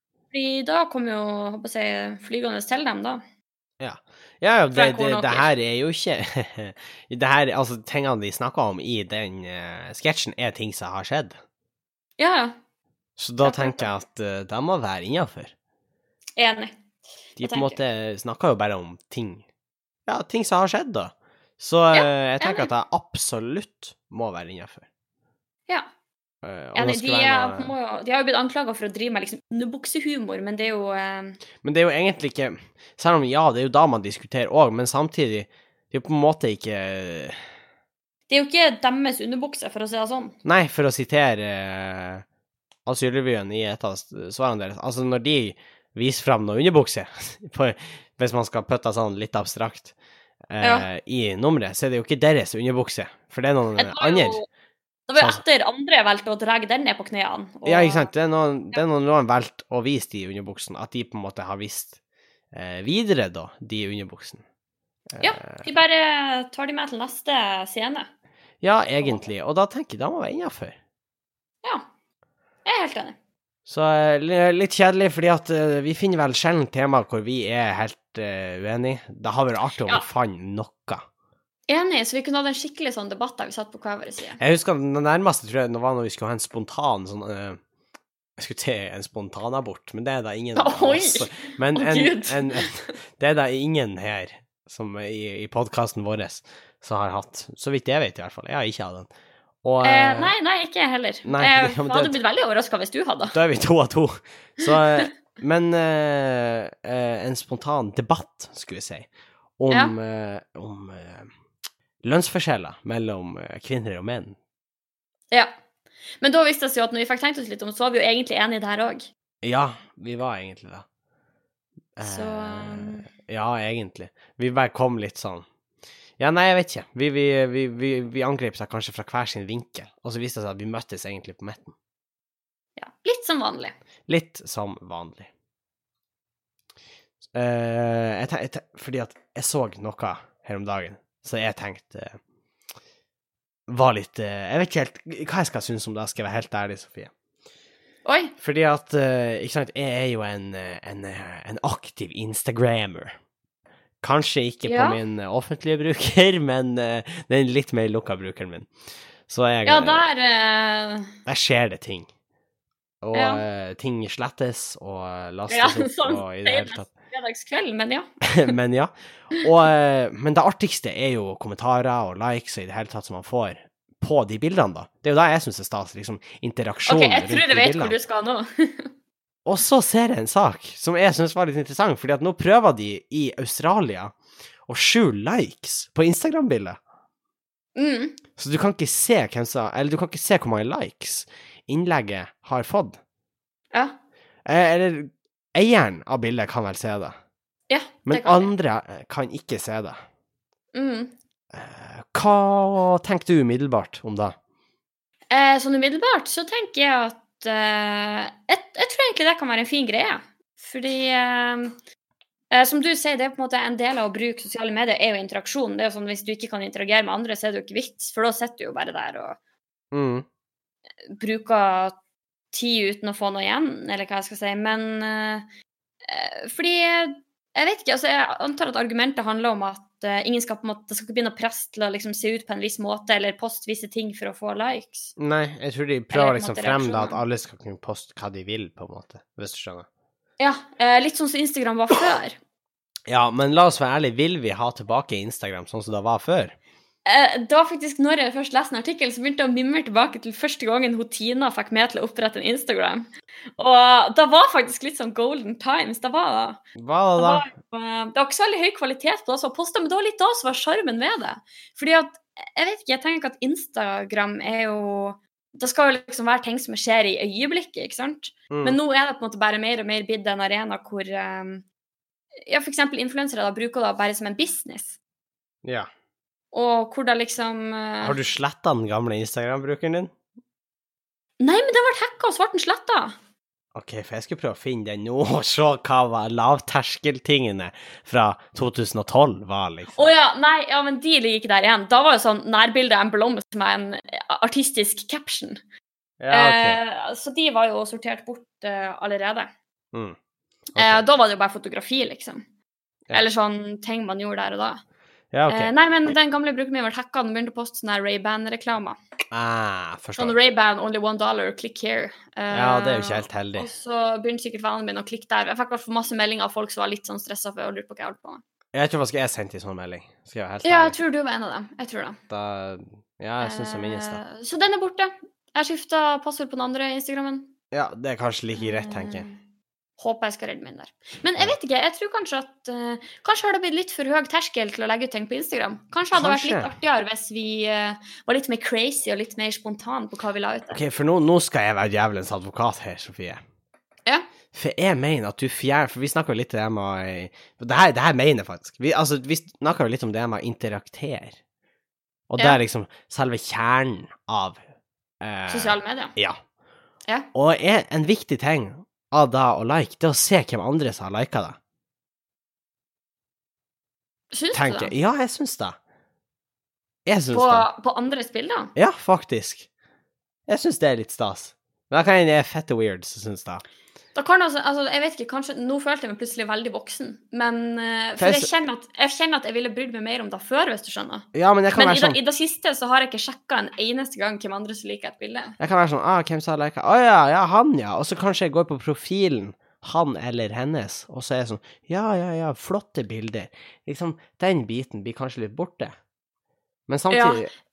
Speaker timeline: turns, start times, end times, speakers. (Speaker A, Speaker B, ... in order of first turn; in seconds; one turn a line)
Speaker A: 0.3-3.2
Speaker B: 3.8-11.4
Speaker A: 4.7-5.5
Speaker A: 12.2-12.6
Speaker B: 13.2-15.5
Speaker A: 13.4-13.9
Speaker A: 16.4-16.8
Speaker B: 17.4-19.4
Speaker A: 17.4-17.8
Speaker B: 20.1-24.9
Speaker A: 21.9-22.7
Speaker B: 26.4-27.7
Speaker A: 26.8-31.4
Speaker B: 31.6-37.4
Speaker A: 38.3-40.4
Speaker B: 40.4-42.2
Speaker B: 42.9-49.9
Speaker B: 50.5-54.4
Speaker A: 50.6-50.9
Speaker A: 53.8-54.5
Speaker A: 55.1-58.1
Speaker B: 55.2-55.4
Speaker B: 57.6-62.0
Speaker B: 62.5-64.4
Speaker B: 65.1-65.7
Speaker A: 65.2-68.1
Speaker B: 68.6-70.8
Speaker A: 72.7-73.2
Speaker B: 73.7-81.0
Speaker A: 81.7-84.4
Speaker B: 84.4-87.6
Speaker B: 88.4-99.1
Speaker A: 90.6-92.7
Speaker B: 99.6-100.3
Speaker A: 99.8-103.4
Speaker B: 101.2-102.2
Speaker B: 103.3-109.1
Speaker A: 104.6-105.0
Speaker B: 109.6-111.3
Speaker A: 109.7-110.0
Speaker B: 112.0-114.4
Speaker A: 116.2-119.0
Speaker B: 119.4-120.8
Speaker B: 122.0-125.5
Speaker A: 122.0-123.1
Speaker B: 126.2-131.7
Speaker A: 132.8-133.8
Speaker B: 134.1-135.3
Speaker B: 137.3-142.2
Speaker B: 143.7-147.1
Speaker A: 148.1-148.3
Speaker B: 148.4-153.2
Speaker B: 154.0-158.7
Speaker A: 154.7-155.0
Speaker B: 159.3-160.0
Speaker A: 159.7-161.1
Speaker B: 161.2-162.1
Speaker B: 163.0-166.9
Speaker A: 163.1-163.4
Speaker A: 165.5-168.5
Speaker B: 168.2-177.9
Speaker A: 176.9-178.9
Speaker B: 179.4-184.2
Speaker B: 184.7-186.8
Speaker A: 187.8-188.2
Speaker B: 188.4-193.0
Speaker B: 194.5-197.2
Speaker A: 197.7-198.5
Speaker B: 198.1-200.0
Speaker A: 200.7-201.1
Speaker B: 201.5-204.3
Speaker A: 205.3-211.8
Speaker A: 212.5-219.4
Speaker B: 219.9-220.2
Speaker A: 221.1-221.9
Speaker A: 222.5-225.5
Speaker A: 226.0-235.1
Speaker B: 235.2-239.9
Speaker A: 236.1-237.2
Speaker A: 240.4-242.4
Speaker B: 243.1-246.6
Speaker A: 247.1-256.6
Speaker B: 256.8-257.5
Speaker A: 257.2-271.6
Speaker B: 268.5-268.8
Speaker A: 272.4-274.9
Speaker B: 275.6-275.9
Speaker A: 276.5-278.2
Speaker B: 278.0-280.1
Speaker A: 281.4-283.1
Speaker B: 283.8-290.1
Speaker A: 289.9-295.6
Speaker B: 296.2-296.8
Speaker A: 296.3-299.5
Speaker B: 300.7-301.0
Speaker A: 300.8-302.4
Speaker A: 303.1-304.8
Speaker B: 305.3-305.7
Speaker A: 305.5-309.0
Speaker B: 309.3-310.4
Speaker A: 310.2-318.4
Speaker B: 312.5-313.7
Speaker B: 318.7-321.0
Speaker A: 320.6-322.2
Speaker B: 322.3-324.2
Speaker A: 323.4-327.5
Speaker B: 327.7-329.3
Speaker A: 328.6-329.4
Speaker A: 330.0-340.8
Speaker B: 336.1-336.7
Speaker B: 340.7-343.4
Speaker B: 344.5-351.4
Speaker B: 352.3-354.6
Speaker B: 355.2-356.4
Speaker A: 355.5-356.2
Speaker B: 357.3-361.6
Speaker A: 364.3-364.9
Speaker B: 364.5-365.8
Speaker B: 367.1-367.7
Speaker A: 367.3-368.7
Speaker B: 368.8-369.7
Speaker B: 370.5-373.6
Speaker A: 374.1-385.6
Speaker B: 378.2-378.5
Speaker B: 381.3-382.2
Speaker B: 385.6-395.9
Speaker B: 396.9-397.5
Speaker A: 397.1-397.4